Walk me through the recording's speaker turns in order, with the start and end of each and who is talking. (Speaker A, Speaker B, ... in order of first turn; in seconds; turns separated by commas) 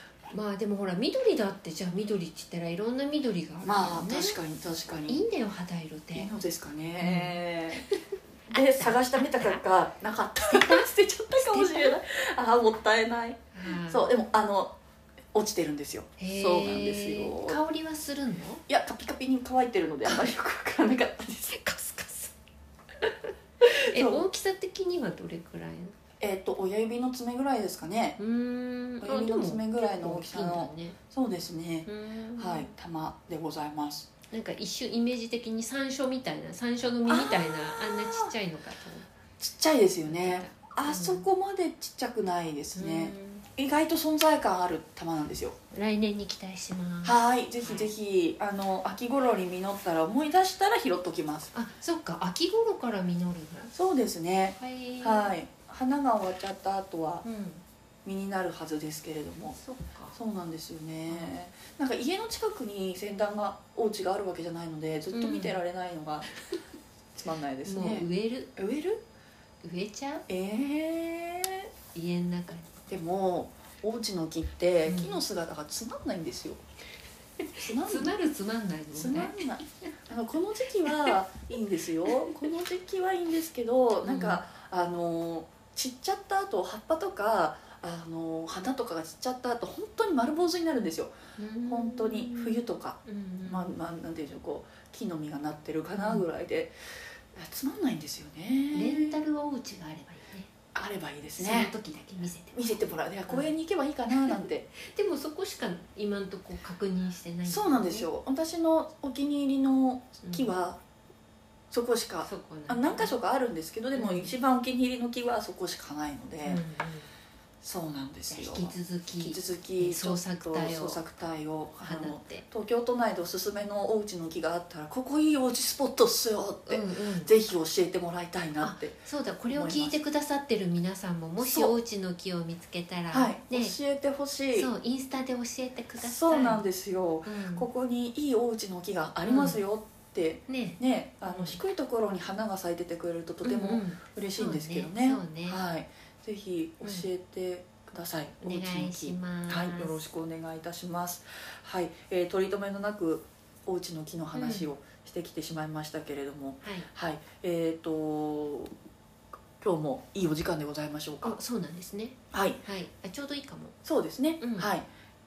Speaker A: 0.3-4.4, Speaker B: 3.6-5.2, Speaker A: 5.1-6.3, Speaker B: 6.1-7.9, Speaker A: 7.0-7.9, Speaker B: 8.5-14.8, Speaker A: 8.5-9.6, Speaker A: 10.5-11.9, Speaker A: 13.5-14.1, Speaker B: 15.3-17.6, Speaker A: 16.2-18.6, Speaker B: 18.7-21.6, Speaker A: 20.1-20.3, Speaker A: 21.5-22.3, Speaker A: 23.0-25.9, Speaker B: 23.9-24.2, Speaker B: 26.2-28.2, Speaker A: 28.2-31.0, Speaker B: 29.0-34.1, Speaker A: 31.9-32.7, Speaker A: 34.3-39.1, Speaker B: 37.1-38.3, Speaker B: 39.4-45.6, Speaker A: 40.0-41.3, Speaker A: 42.8-43.5, Speaker A: 45.7-47.9, Speaker B: 47.0-51.5, Speaker A: 51.5-53.7, Speaker B: 53.7-57.3, Speaker A: 54.6-55.4, Speaker A: 57.2-57.6, Speaker B: 58.0-59.6, Speaker A: 59.6-60.2, Speaker B: 60.1-66.3, Speaker A: 61.1-61.4, Speaker A: 65.1-65.6, Speaker B: 67.2-69.0, Speaker A: 67.7-68.6, Speaker A: 69.6-70.2, Speaker B: 70.3-71.7, Speaker A: 71.9-72.7, Speaker B: 72.9-76.6, Speaker A: 74.9-75.2, Speaker A: 77.5-79.4, Speaker B: 77.6-78.2, Speaker B: 78.9-91.1, Speaker A: 80.9-81.2, Speaker A: 82.2-82.5, Speaker A: 84.0-84.4, Speaker A: 91.4-93.7, Speaker B: 91.7-96.8, Speaker A: 96.0-96.3, Speaker B: 97.3-99.2, Speaker A: 98.7-100.5, Speaker B: 100.7-101.7, Speaker A: 101.4-103.5, Speaker B: 102.5-104.7, Speaker A: 104.8-108.1, Speaker B: 107.5-110.8, Speaker A: 110.2-110.5, Speaker B: 111.7-116.6, Speaker A: 112.2-113.1, Speaker A: 114.0-114.3, Speaker A: 116.4-117.1, Speaker B: 117.6-129.0, Speaker A: 118.3-121.0, Speaker A: 121.8-122.4, Speaker A: 126.7-127.3, Speaker A: 128.6-133.8, Speaker B: 129.5-130.0, Speaker B: 131.4-131.8, Speaker B: 133.1-134.7, Speaker A: 134.6-136.7, Speaker B: 136.0-158.7, Speaker A: 137.3-137.7, Speaker A: 139.2-139.6, Speaker A: 140.5-141.6, Speaker A: 143.4-145.6, Speaker A: 146.8-147.1, Speaker A: 148.4-150.0, Speaker A: 154.3-154.7, Speaker B: 159.6-161.4, Speaker A: 161.2-163.8, Speaker B: 162.3-162.6, Speaker B: 163.8-164.9, Speaker A: 164.4-164.7